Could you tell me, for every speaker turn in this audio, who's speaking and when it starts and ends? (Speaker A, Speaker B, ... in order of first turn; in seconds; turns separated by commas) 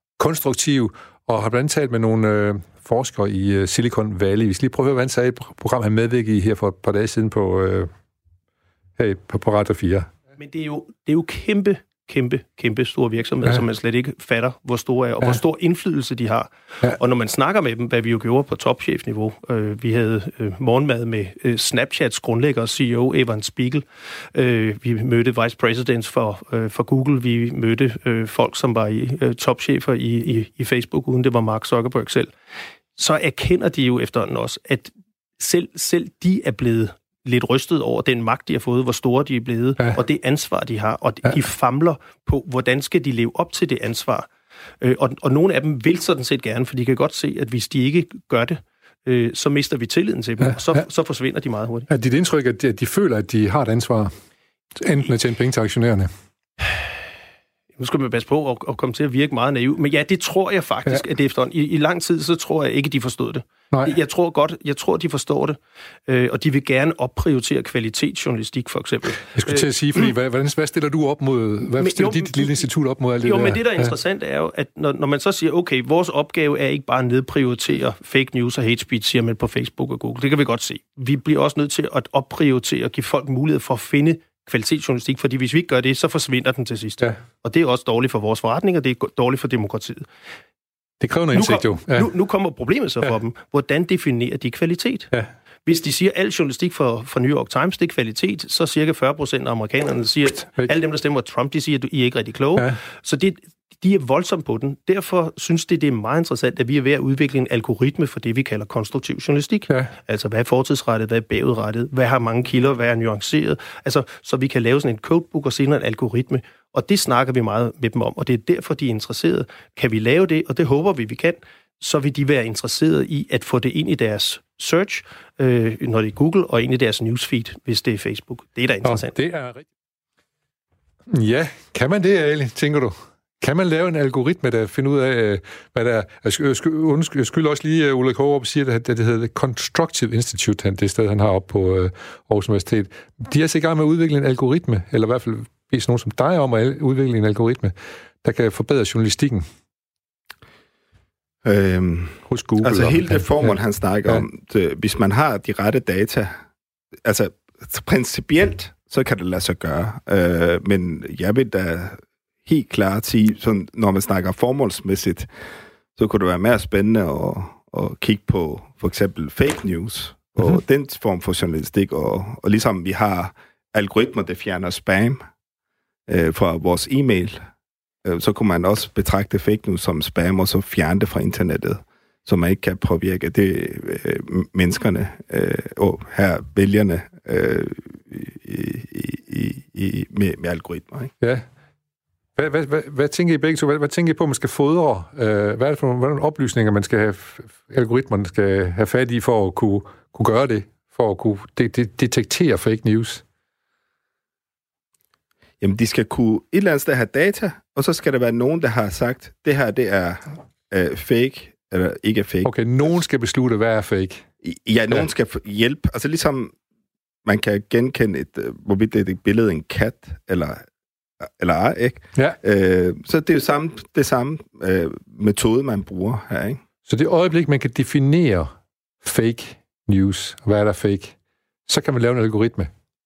Speaker A: 0.2-7.9, Speaker A: 9.0-10.1, Speaker B: 10.4-32.3, Speaker B: 33.0-44.3, Speaker B: 44.8-51.9, Speaker A: 50.4-50.8, Speaker A: 51.9-54.1, Speaker A: 54.8-56.1, Speaker B: 57.8-69.7, Speaker A: 69.3-73.9, Speaker B: 71.8-72.6, Speaker B: 73.2-90.1, Speaker A: 91.0-92.1, Speaker B: 91.3-95.1, Speaker B: 95.6-129.1, Speaker A: 128.8-129.7, Speaker A: 131.1-149.4, Speaker C: 151.4-156.4, Speaker A: 152.3-153.6, Speaker C: 157.0-165.3, Speaker C: 165.9-175.2, Speaker C: 176.1-177.4, Speaker C: 178.0-191.1, Speaker A: 191.2-191.4, Speaker A: 192.4-203.2, Speaker C: 205.6-212.5, Speaker A: 212.4-214.2, Speaker C: 214.4-216.5, Speaker C: 217.2-220.6, Speaker C: 221.2-226.6, Speaker A: 226.9-231.1, Speaker A: 231.7-232.7